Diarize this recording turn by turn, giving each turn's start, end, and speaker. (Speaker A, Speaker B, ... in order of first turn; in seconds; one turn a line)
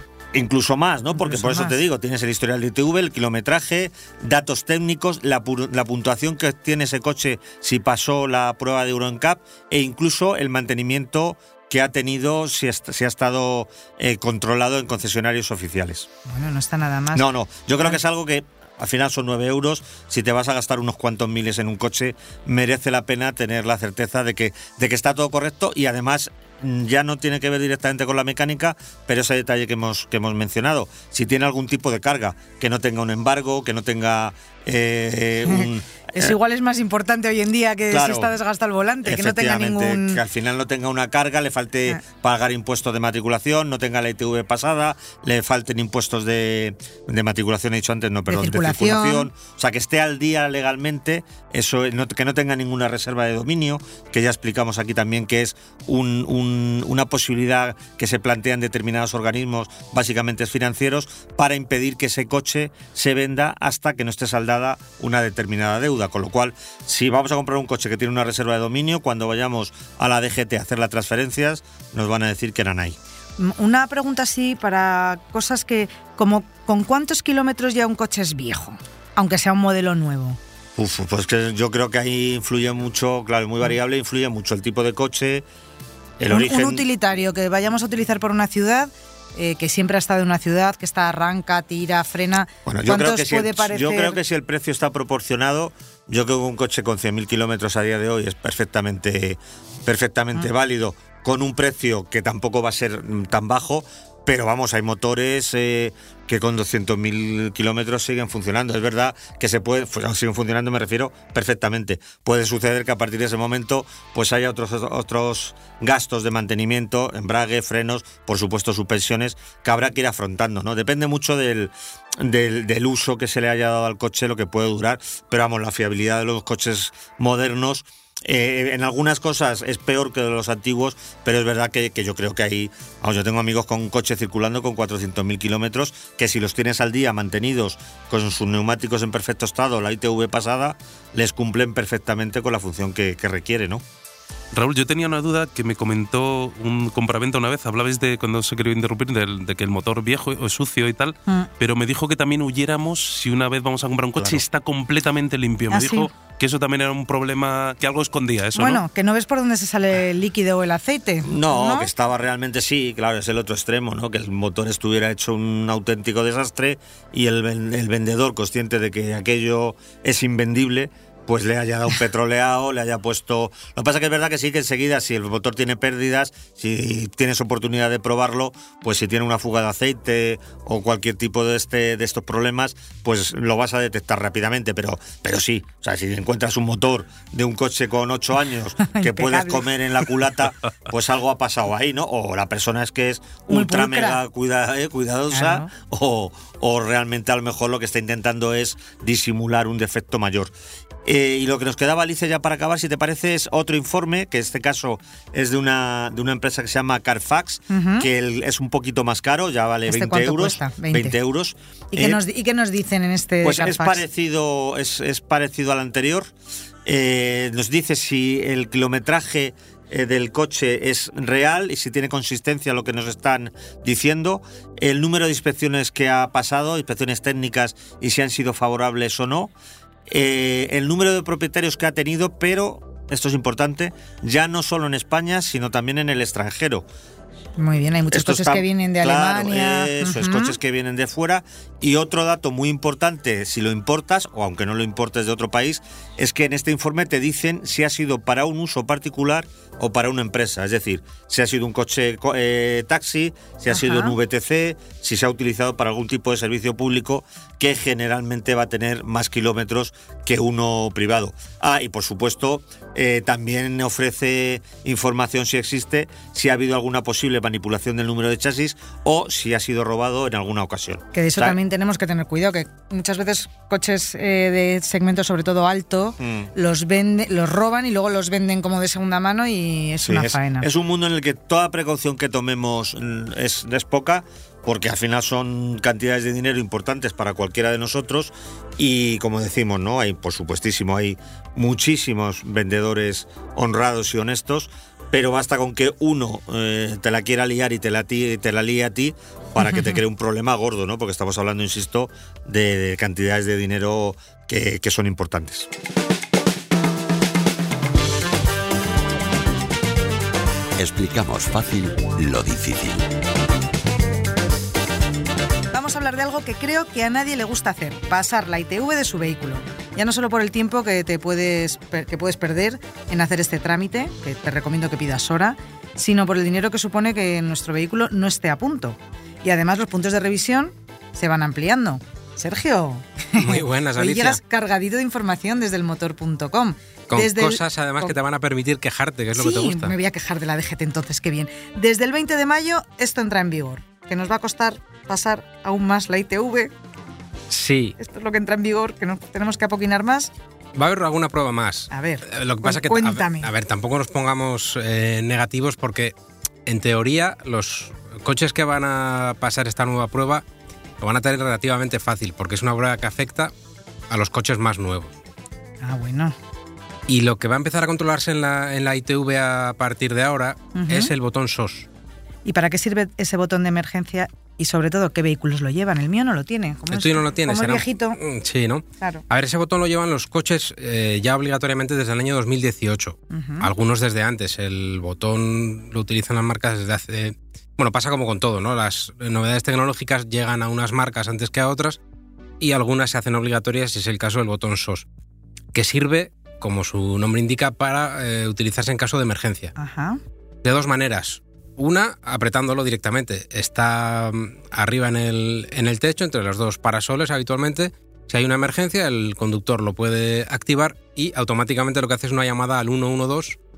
Speaker A: 0.3-16.1
Speaker B: 1.2-1.7
Speaker B: 16.3-17.2
Speaker A: 17.1-36.3
Speaker B: 35.4-40.2
Speaker A: 37.9-38.3
Speaker A: 39.0-73.0
Speaker B: 48.3-49.3
Speaker B: 73.4-80.4
Speaker A: 80.8-85.4
Speaker A: 86.2-86.8
Speaker B: 86.3-94.2
Speaker A: 92.7-143.8
Speaker C: 144.5-158.8
Speaker B: 155.7-156.1
Speaker B: 158.6-161.9
Speaker A: 161.2-200.5
Speaker B: 188.8-189.7
Speaker B: 193.5-194.2
Speaker B: 195.3-195.7
Speaker A: 201.0-212.2
Speaker B: 207.7-208.1
Speaker B: 209.9-211.2
Speaker B: 211.9-214.0
Speaker A: 213.4-216.3
Speaker A: 216.8-229.5
Speaker A: 230.1-236.8
Speaker B: 237.6-240.6
Speaker A: 238.1-271.6
Speaker B: 253.7-254.1
Speaker B: 271.1-280.7
Speaker A: 276.2-276.5
Speaker A: 280.0-305.7
Speaker B: 299.6-300.0
Speaker D: 310.8-313.1
Speaker B: 315.7-338.1
Speaker E: 333.4-334.4
Speaker E: 337.1-339.9
Speaker B: 339.3-346.7
Speaker E: 347.5-347.9
Speaker B: 348.0-350.3
Speaker E: 350.7-356.1
Speaker B: 351.9-353.5
Speaker E: 356.6-360.4
Speaker E: 361.0-363.5
Speaker E: 364.1-365.1
Speaker B: 365.8-366.3
Speaker E: 367.1-371.9
Speaker B: 370.7-371.1
Speaker B: 372.4-378.2
Speaker E: 376.9-392.0
Speaker B: 383.3-383.7
Speaker E: 392.6-395.1
Speaker E: 395.7-399.7
Speaker B: 399.8-400.2
Speaker E: 400.6-413.6